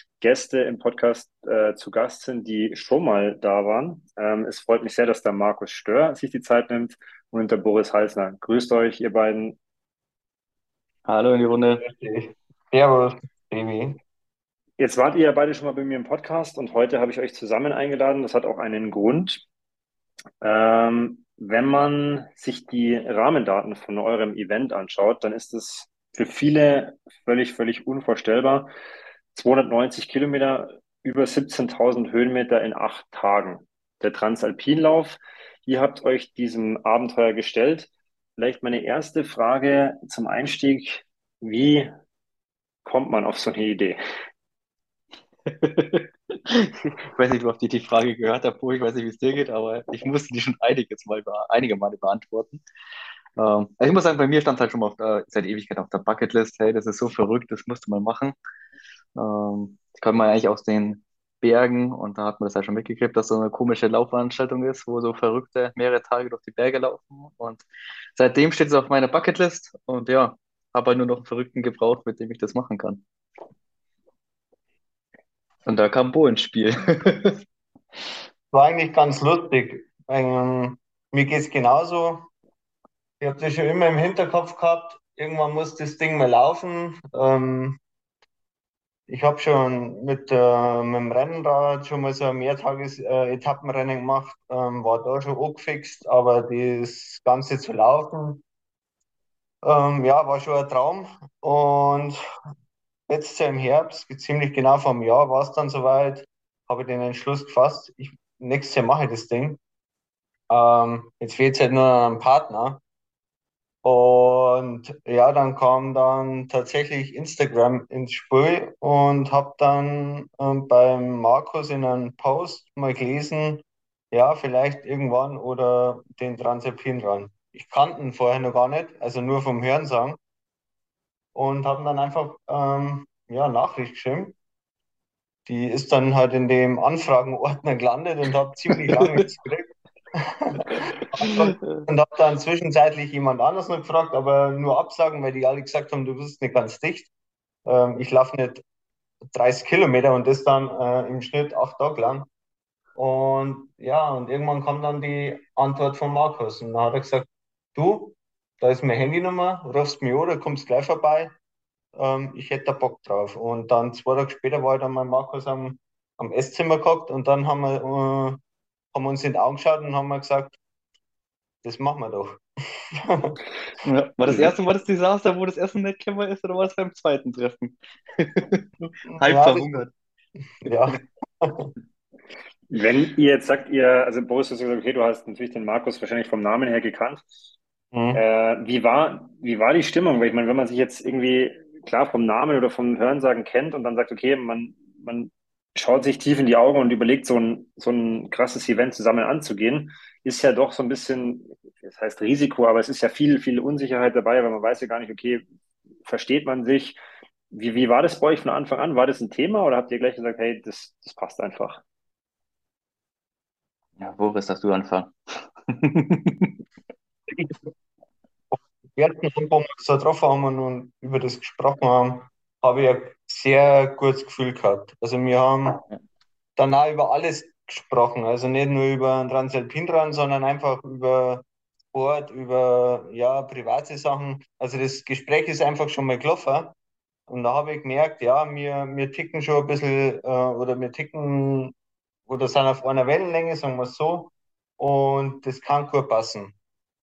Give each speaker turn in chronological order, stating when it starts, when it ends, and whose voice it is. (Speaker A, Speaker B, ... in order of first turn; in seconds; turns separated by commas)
Speaker A: 0.2-9.6, Speaker B: 11.1-11.8, Speaker C: 11.8-14.0, Speaker A: 14.8-19.4, Speaker A: 20.4-28.7, Speaker A: 29.3-41.9, Speaker A: 42.9-44.0, Speaker B: 45.5-52.6, Speaker B: 53.4-58.4, Speaker B: 59.2-73.0, Speaker B: 75.7-77.4, Speaker C: 78.5-82.3, Speaker C: 83.2-87.8, Speaker C: 89.1-98.4, Speaker C: 99.6-102.2, Speaker C: 103.1-109.6, Speaker C: 110.5-112.8, Speaker C: 113.8-130.2, Speaker C: 131.3-134.4, Speaker C: 135.5-147.1, Speaker B: 139.0-139.3, Speaker B: 141.2-141.9, Speaker C: 147.7-148.6, Speaker C: 149.3-152.3, Speaker C: 153.0-161.3, Speaker C: 161.9-168.4, Speaker C: 168.9-170.6, Speaker C: 171.6-173.4, Speaker B: 173.8-179.9, Speaker C: 179.1-179.8, Speaker C: 180.6-181.7, Speaker A: 182.7-187.2, Speaker C: 187.9-188.2, Speaker A: 188.1-205.4, Speaker A: 206.1-207.0, Speaker A: 207.5-211.8, Speaker B: 214.0-216.5, Speaker C: 217.3-217.7, Speaker C: 218.5-225.8, Speaker C: 226.6-236.8, Speaker C: 237.3-241.7, Speaker C: 242.3-246.6